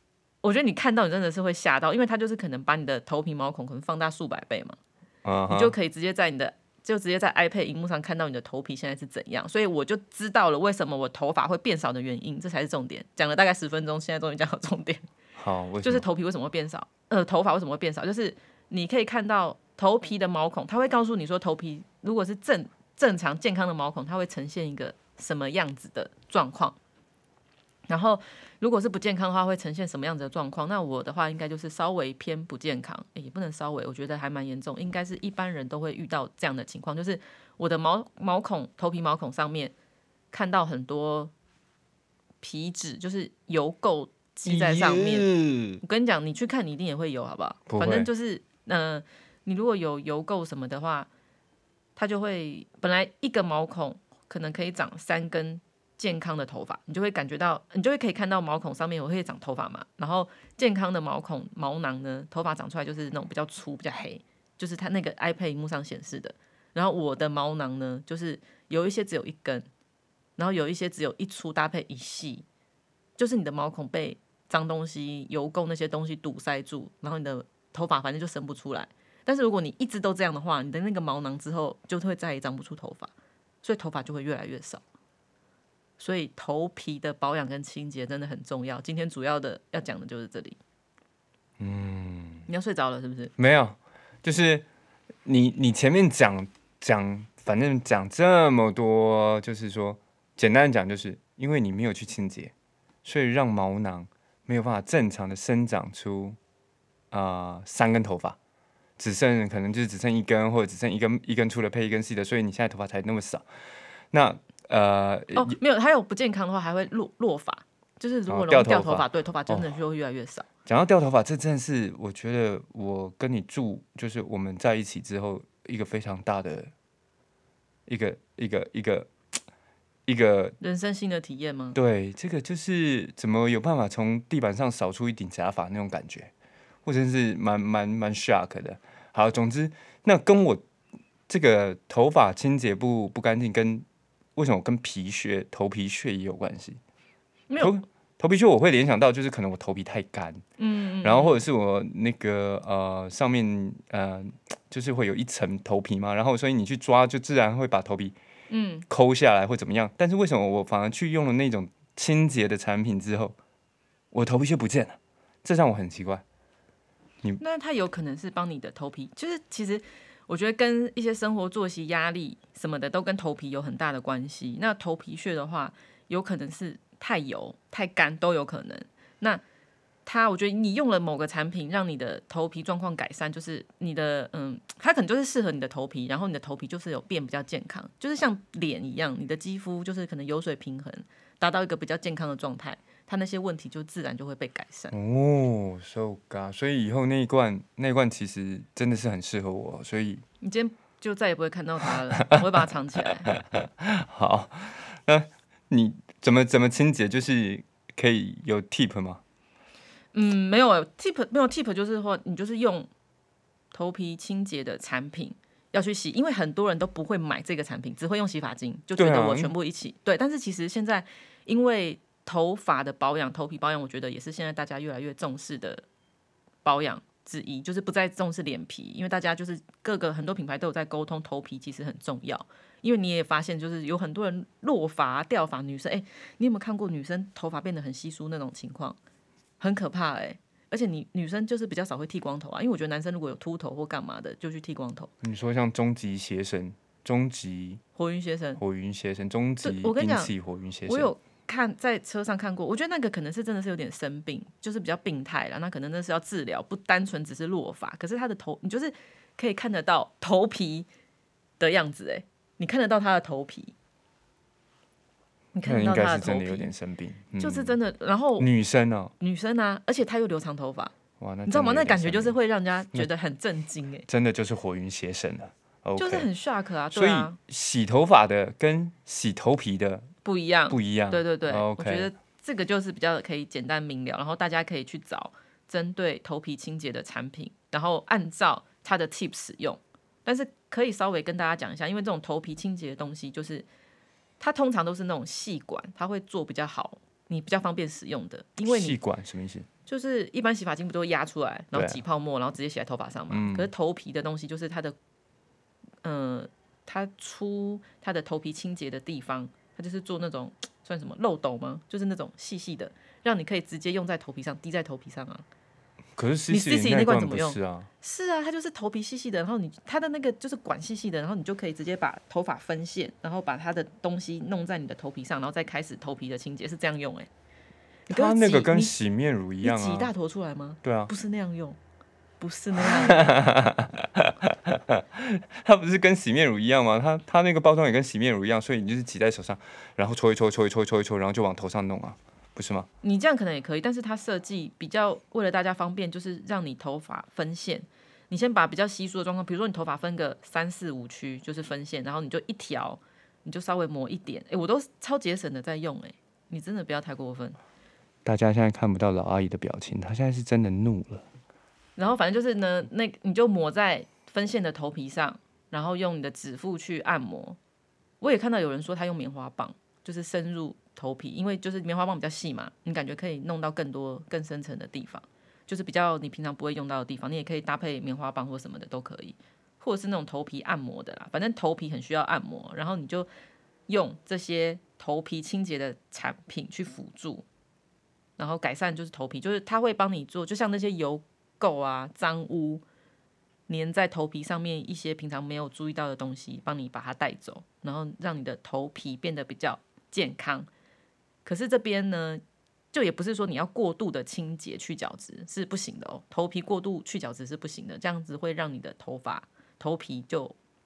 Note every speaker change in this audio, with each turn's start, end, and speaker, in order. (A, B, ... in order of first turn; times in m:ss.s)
0:00.4-0:04.8 A
0:05.2-0:05.7 B
0:05.5-0:15.0 A
0:15.4-0:16.0 B
0:15.8-0:26.8 A
0:27.9-0:39.7 A
0:40.3-0:41.3 A
0:42.4-0:51.1 A
0:44.5-0:45.3 B
0:47.7-0:48.1 B
0:52.0-1:09.7 A
1:10.4-1:12.4 A
1:13.2-1:23.1 A
1:23.6-1:24.8 A
1:26.0-1:30.6 A
1:31.6-1:32.5 B
1:32.5-1:33.3 A
1:33.4-1:34.6 B
1:35.2-1:42.5 B
1:43.0-1:46.4 B
1:47.1-1:48.4 B
1:49.0-1:53.4 B
1:54.1-1:55.6 B
1:55.3-2:00.5 A
1:58.3-1:59.7 B
2:00.6-2:06.7 B
2:07.8-2:09.1 B
2:10.0-2:10.6 B
2:10.6-2:11.8 A
2:11.7-2:16.3 B
2:16.8-2:20.6 B
2:21.3-2:26.8 B
2:27.5-2:27.8 A
2:27.6-2:30.4 B
2:30.6-2:31.4 A
2:31.0-2:38.2 B
2:38.5-2:38.8 A
2:38.9-2:43.4 B
2:44.1-2:46.2 B
2:47.4-2:59.4 A
3:00.0-3:14.9 A
3:14.9-3:20.2 B
3:20.4-3:23.3 A
3:23.0-3:29.2 B
3:30.1-3:32.9 A
3:33.7-3:45.8 A
3:39.0-3:39.5 B
3:46.6-3:59.0 A
3:59.6-4:05.1 A
4:05.2-4:07.8 B
4:08.0-4:08.6 A
4:08.6-4:11.1 B
4:09.6-4:10.3 A
4:10.9-4:20.9 A
4:21.6-4:23.7 A
4:25.5-4:26.7 A
4:25.6-4:27.8 B
4:27.4-4:28.5 A
4:28.4-4:29.1 B
4:29.2-4:30.9 A
4:31.2-4:32.4 B
4:31.5-4:34.1 A
4:34.1-4:36.3 B
4:36.0-4:37.4 A
4:36.9-4:40.1 B
4:40.2-4:53.6 A
4:40.7-4:42.1 B
4:54.4-4:59.0 A
4:58.6-4:59.7 B
4:59.9-5:05.0 A
5:01.7-5:02.0 B
5:03.3-5:03.7 B
5:06.0-5:15.4 A
5:16.2-5:17.9 B
5:16.5-5:27.3 A
5:28.1-5:28.9 A
5:28.1-5:30.1 B
5:29.6-5:31.8 A
5:30.8-5:31.1 B
5:32.4-5:33.4 A
5:32.8-5:42.9 B
5:43.0-5:57.6 A
5:58.2-6:01.2 B
6:02.0-6:07.6 A
6:08.2-6:23.3 A
6:23.9-6:27.4 A
6:28.4-6:32.8 A
6:33.7-6:40.7 A
6:41.4-6:42.4 A
6:42.9-6:50.6 A